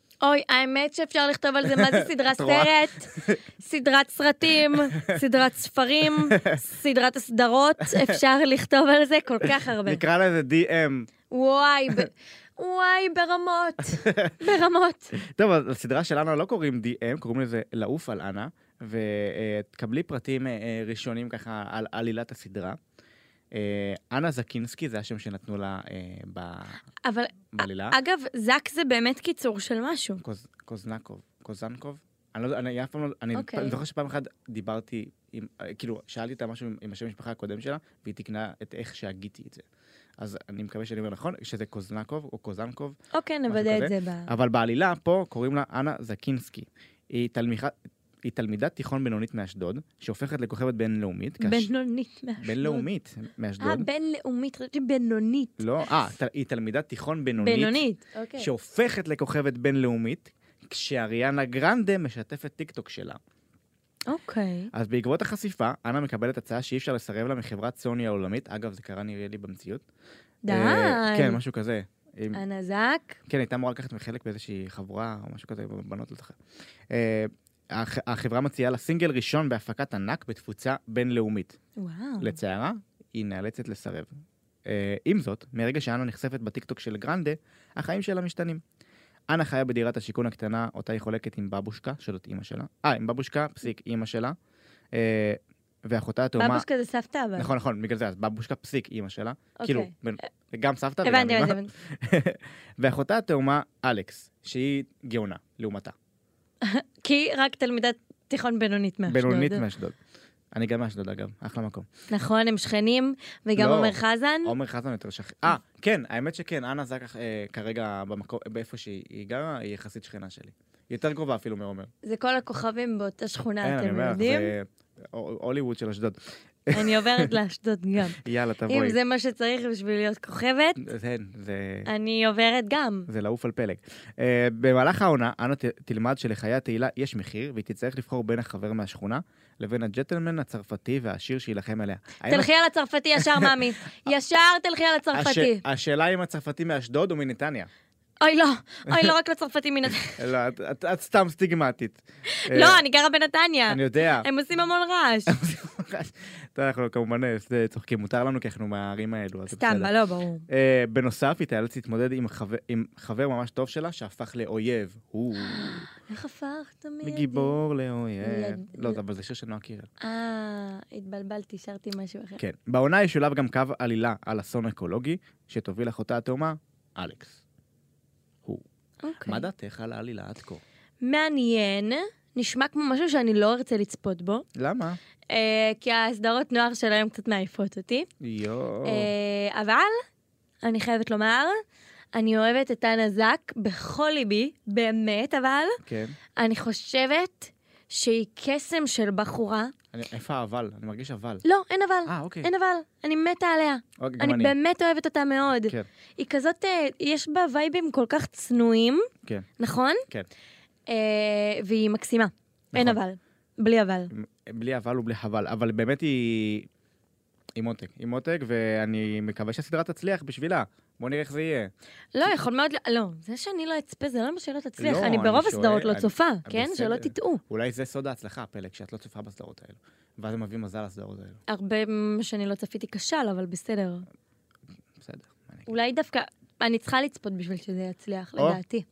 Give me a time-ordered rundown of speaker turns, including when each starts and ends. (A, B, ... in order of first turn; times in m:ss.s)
0:00.2-0:03.1 A
0:01.7-0:03.4 B
0:03.6-0:10.0 A
0:06.2-0:06.6 B
0:09.5-0:11.1 B
0:11.3-0:15.1 A
0:13.9-0:14.4 B
0:15.2-0:22.8 B
0:23.5-0:26.8 B
0:27.0-0:30.2 A
0:27.5-0:28.0 B
0:30.2-0:39.6 B
0:33.3-0:33.8 A
0:40.2-0:43.0 B
0:43.1-0:44.3 A
0:43.5-0:47.7 B
0:48.2-0:51.7 B
0:51.4-0:52.8 A
0:52.4-0:53.9 B
0:53.6-0:55.6 A
0:55.6-0:57.8 B
0:57.4-0:58.5 A
0:58.4-1:03.2 B
1:04.1-1:04.7 A
1:04.7-1:09.8 B
1:10.4-1:11.4 A
1:10.5-1:12.4 B
1:12.3-1:13.2 A
1:13.3-1:16.4 B
1:16.9-1:21.6 B
1:21.8-1:22.4 A
1:22.2-1:24.1 B
1:24.6-1:28.6 B
1:29.3-1:34.4 B
1:34.9-1:36.6 B
1:36.4-1:37.5 A
1:37.4-1:45.9 B
1:39.6-1:39.9 A
1:41.0-1:41.7 A
1:46.6-1:49.6 A
1:49.1-1:50.0 B
1:50.5-1:51.9 B
1:52.1-1:54.5 A
1:53.6-2:01.9 B
2:02.0-2:04.5 A
2:03.6-2:07.3 B
2:06.7-2:10.8 A
2:08.2-2:09.0 B
2:10.8-2:11.9 B
2:11.9-2:13.1 A
2:13.1-2:22.5 B
2:22.3-2:25.6 A
2:23.2-2:23.6 B
2:25.1-2:27.7 B
2:28.2-2:30.2 A
2:30.1-2:32.8 B
2:32.3-2:35.3 A
2:33.7-2:34.3 B
2:35.3-2:39.9 B
2:39.5-2:40.4 A
2:40.5-2:45.9 B
2:45.4-2:47.5 A
2:47.0-2:49.9 B
2:48.2-2:49.0 A
2:50.0-2:52.4 A
2:52.4-2:57.4 B
2:59.0-2:59.4 A
2:59.2-3:00.6 B
3:01.0-3:04.4 A
3:04.6-3:05.0 B
3:05.3-3:08.1 A
3:08.2-3:09.1 B
3:08.8-3:10.0 A
3:10.6-3:11.6 A
3:12.1-3:15.8 A
3:15.8-3:16.2 B
3:16.4-3:19.7 A
3:19.9-3:21.4 B
3:21.4-3:29.1 A
3:22.0-3:22.5 B
3:24.0-3:24.5 B
3:29.6-3:30.0 A
3:30.9-3:34.1 A
3:32.7-3:33.0 B
3:34.1-3:36.7 B
3:37.6-3:41.7 B
3:42.1-3:47.4 A
3:44.8-3:51.4 B
3:51.5-3:54.0 A
3:55.0-3:55.7 B
3:55.7-3:58.8 A